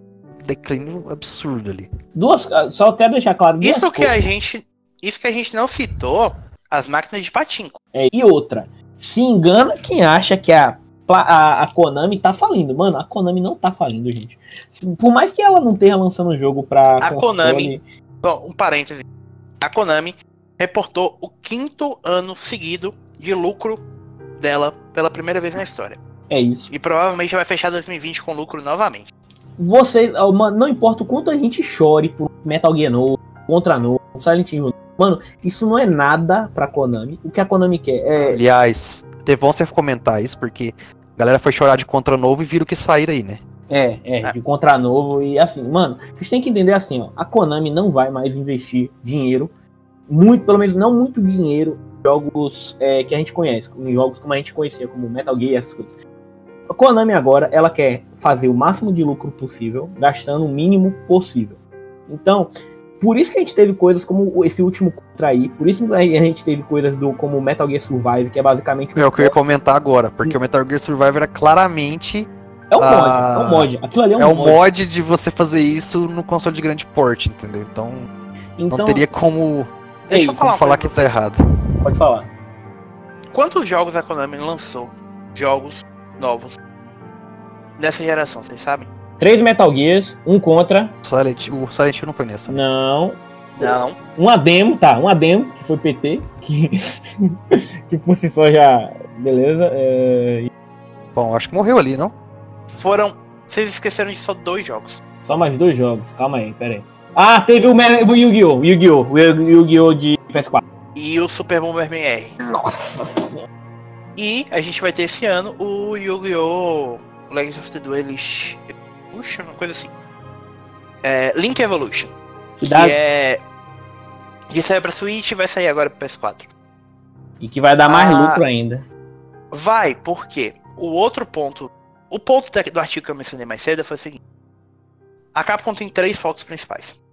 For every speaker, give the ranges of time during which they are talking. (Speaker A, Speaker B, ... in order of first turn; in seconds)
Speaker A: 0.4-1.9, 38.2-43.4, 69.0-78.1, 78.7-81.3, 91.0-92.6, 101.1-102.1
Speaker B: 2.1-4.2, 7.9-17.8, 26.3-26.7, 29.6-38.4, 43.7-49.5, 50.1-56.0, 56.7-69.3, 72.7-74.6, 78.6-79.0, 80.1-80.4, 81.8-82.3, 89.2-90.9, 92.5-100.5, 105.2-110.6, 112.4-113.5, 122.6-123.0, 127.4-128.8
Speaker C: 3.6-7.7, 17.0-19.1, 19.6-23.8, 24.4-26.0, 26.7-29.1, 80.1-81.2, 83.3-86.6, 87.8-88.9, 93.5-94.0, 102.7-105.0, 110.9-112.3, 114.2-119.9, 121.0-123.4, 124.5-126.5, 127.9-128.4, 129.5-134.2, 135.3-137.0